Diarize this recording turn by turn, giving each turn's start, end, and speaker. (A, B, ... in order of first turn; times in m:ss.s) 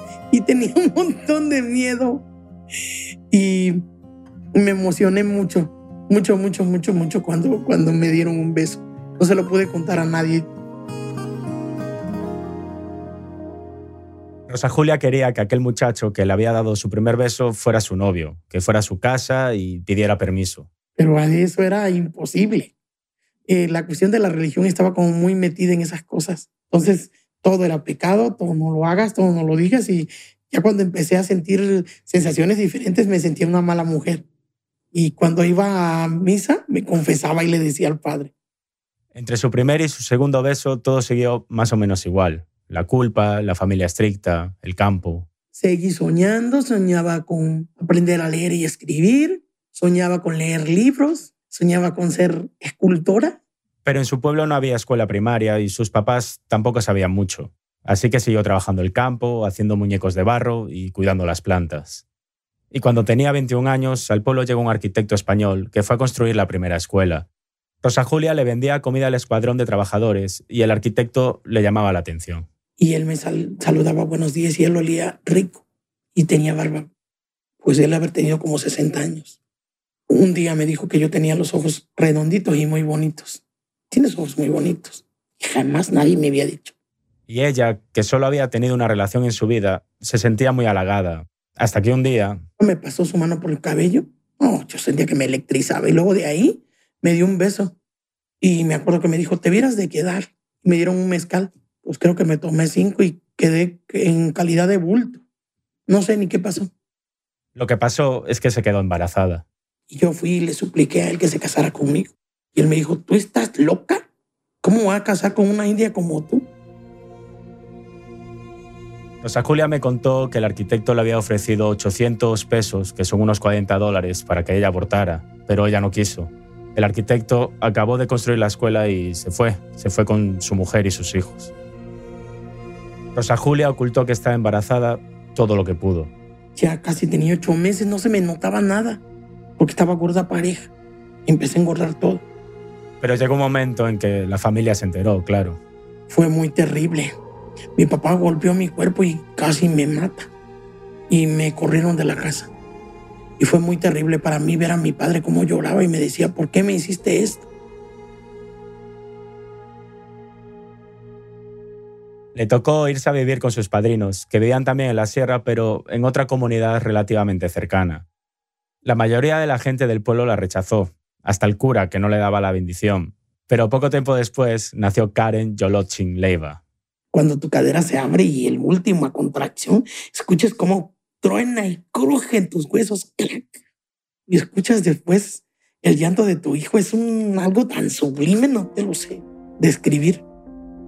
0:00.3-0:02.2 A
0:03.3-0:03.8 A
0:04.5-0:10.5 A
0:14.5-0:20.7 B
0:21.0-0:22.7 A
0:23.5-0:34.2 A
0:34.9-0:38.3 A
0:39.1-0:45.2 B
0:45.5-0:53.4 A
0:53.8-1:02.0 B
1:02.7-1:07.2 B
1:07.8-1:12.4 B
1:12.8-1:15.6 A
1:16.1-1:16.9 A
1:17.6-1:19.4 A
1:20.1-1:26.7 A
1:27.3-1:32.4 B
1:32.6-1:37.7 A
1:38.4-1:45.2 A
1:45.9-1:46.7 A
1:47.6-1:49.4 B
1:49.9-1:54.0 A
1:54.6-1:56.5 A
1:59.2-2:11.5 B
2:13.1-2:16.1 B
2:16.6-2:19.0 A
2:19.6-2:20.7 A
2:21.2-2:22.2 A
2:23.0-2:25.6 B
2:26.1-2:27.1 A
2:27.8-2:30.3 A
2:31.1-2:32.5 A
2:33.4-2:37.4 A
2:42.3-2:48.0 B
2:48.8-2:56.6 B
2:57.1-3:03.6 A
3:04.3-3:10.2 A